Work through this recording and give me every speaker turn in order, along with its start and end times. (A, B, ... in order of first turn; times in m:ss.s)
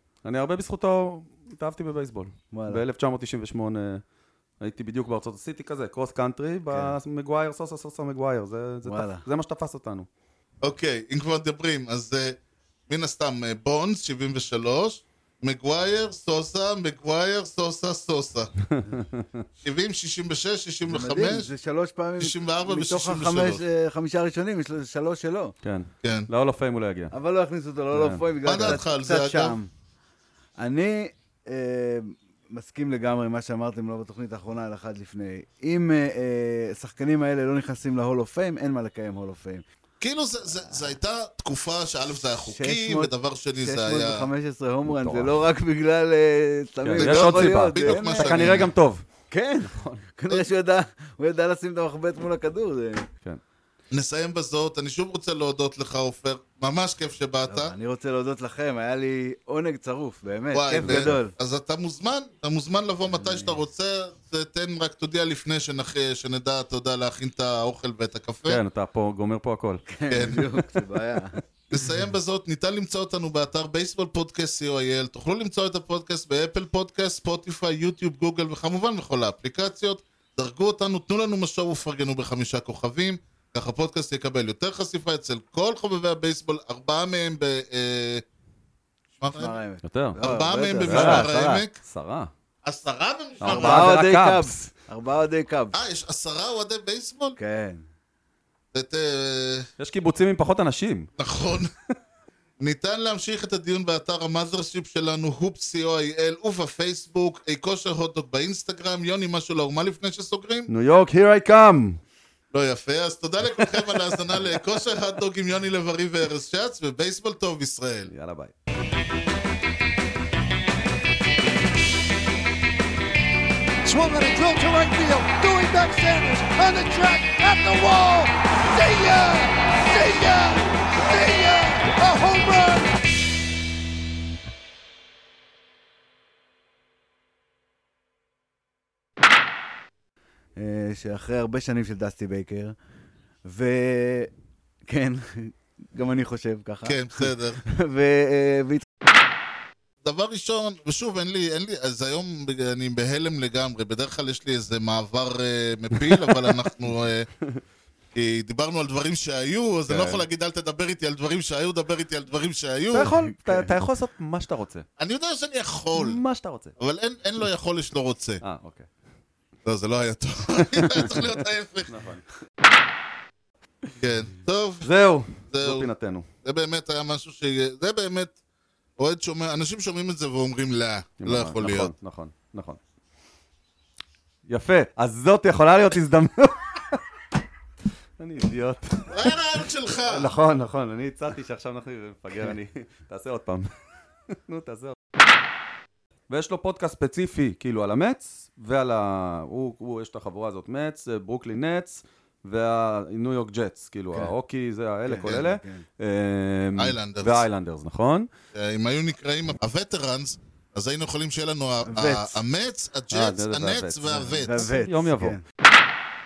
0:00.2-0:04.0 A
0:02.5-0:02.8 B
0:04.6-0:10.1 A
0:06.7-0:07.0 B
0:08.8-0:09.2 B
0:10.6-0:18.5 C
0:18.7-0:19.3 A
0:19.6-0:21.5 C
0:20.8-0:25.5 B
0:22.2-0:23.6 C
0:25.6-0:27.1 A
0:27.1-0:29.7 B
0:27.9-0:28.7 A
0:28.4-0:29.6 C
0:30.6-0:39.6 B
0:40.0-0:44.3 C
0:42.5-0:48.7 B
0:44.8-0:45.3 A
0:46.8-0:49.0 A
0:47.0-0:48.7 C
0:49.3-0:53.1 B
0:49.6-0:50.0 A
0:53.9-0:57.7 C
0:57.5-1:01.3 B
1:00.5-1:08.6 C
1:00.8-1:01.2 A
1:03.1-1:03.6 B
1:08.4-1:09.8 A
1:09.9-1:11.4 B
1:10.1-1:10.6 C
1:11.7-1:28.2 C
1:29.2-1:29.6 C
1:29.4-1:31.6 B
1:29.8-1:30.2 A
1:30.2-1:31.8 C
1:30.8-1:31.3 A
1:31.8-1:32.3 A
1:32.6-1:33.9 C
1:33.4-1:34.6 A
1:33.4-1:35.8 B
1:35.7-1:37.4 C
1:37.4-1:37.8 B
1:38.7-1:39.7 C
1:39.8-1:41.1 A
1:41.2-1:41.7 C
1:42.6-1:50.7 C
1:50.7-1:52.0 A
1:52.5-1:58.1 C
1:58.1-1:58.5 A
2:03.8-2:12.9 D
2:20.6-2:22.8 B
2:23.4-2:24.3 B
2:24.8-2:28.8 B
2:26.8-2:27.6 C
2:30.0-2:37.3 C
2:36.0-2:36.7 A
2:38.1-2:43.2 C
2:39.9-2:40.2 A
2:42.9-2:44.8 A
2:45.0-2:46.2 C
2:45.9-2:46.7 A
2:46.8-2:48.4 C
2:48.4-2:48.9 A
2:49.6-2:51.9 C
2:50.7-2:51.3 A
2:51.9-2:52.2 A
2:54.0-2:54.9 C
2:54.8-2:56.3 A
2:55.5-2:55.9 C
2:56.4-2:58.3 C
2:59.0-3:01.9 C
3:01.2-3:02.8 A
3:04.5-3:07.0 A
3:08.2-3:09.4 A
3:09.1-3:10.3 C
3:10.1-3:13.7 A
3:14.3-3:14.9 A
3:16.3-3:28.3 A
3:25.0-3:25.8 B
3:26.8-3:27.4 C
3:28.5-3:34.8 C
3:31.8-3:32.4 B
3:33.1-3:35.4 A
3:34.3-3:35.4 B